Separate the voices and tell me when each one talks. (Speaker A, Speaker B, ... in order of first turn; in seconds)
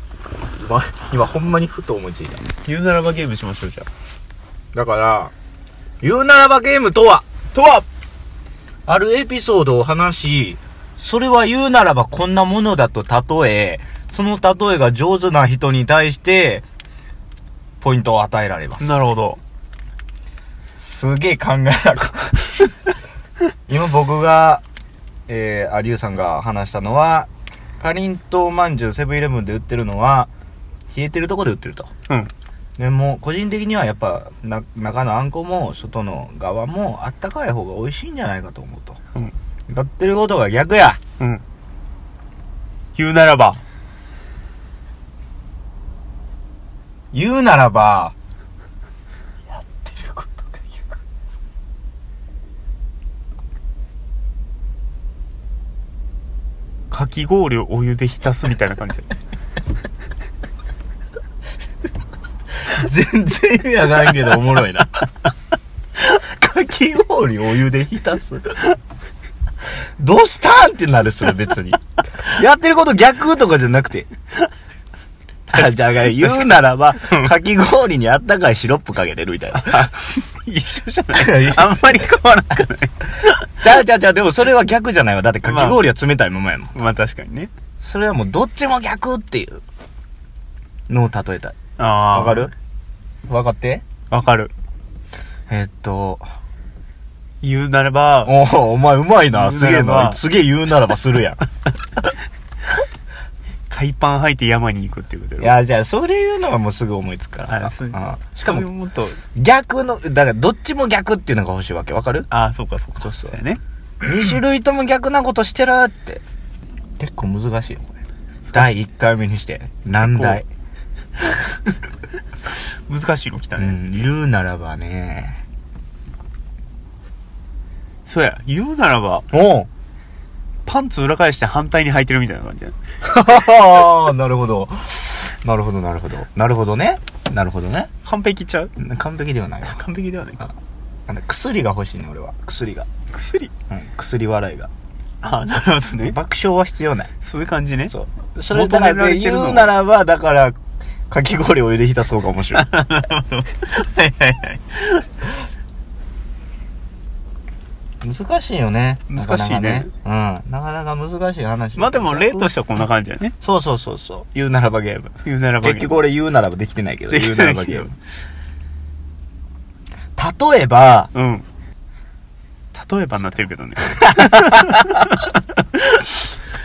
Speaker A: 0.6-2.5, 4.7-5.3, 6.0-7.9, 8.9-16.6, 17.8-19.0, 20.8-22.8, 23.7-24.6, 25.3-27.3, 27.8-30.3, 30.9-31.9, 32.8-39.0, 39.7-41.0, 47.1-48.1, 62.6-65.1, 66.0-68.7, 70.0-74.1, 75.5-80.0, 81.1-81.9, 83.6-86.7, 87.8-89.6, 90.9-91.6, 92.1-92.5, 93.3-93.8, 95.5-96.3, 98.2-101.4, 105.4-108.7, 109.3-112.3, 113.0-113.4, 114.0-116.2, 117.0-117.9, 118.5-120.5, 123.6-125.4, 129.3-129.7, 133.0-137.9, 138.8-139.8, 141.1-142.9, 143.7-144.7, 146.0-147.1, 147.9-150.6, 151.1-152.7, 158.0-162.5, 163.4-167.9, 170.2-171.1, 174.2-174.5
Speaker B: 2.6-3.9, 18.8-19.4, 43.0-43.6, 49.6-50.6, 56.9-59.1, 75.5-77.3, 79.7-83.5, 85.4-85.8, 86.7-87.5, 91.8-92.5, 94.1-94.5, 97.4-98.3, 99.3-100.2, 103.7-105.5, 107.5-109.2, 112.3-113.6, 118.5-118.7, 120.0-120.4, 122.5-123.8, 128.1-129.3, 130.7-132.8, 138.1-138.8, 139.6-140.5, 143.1-143.5, 145.2-146.2, 147.2-147.9, 148.5-149.8, 152.6-155.1, 159.1-159.9, 161.8-163.3, 165.2-166.0, 167.1-167.9, 171.1-171.5, 172.7-176.1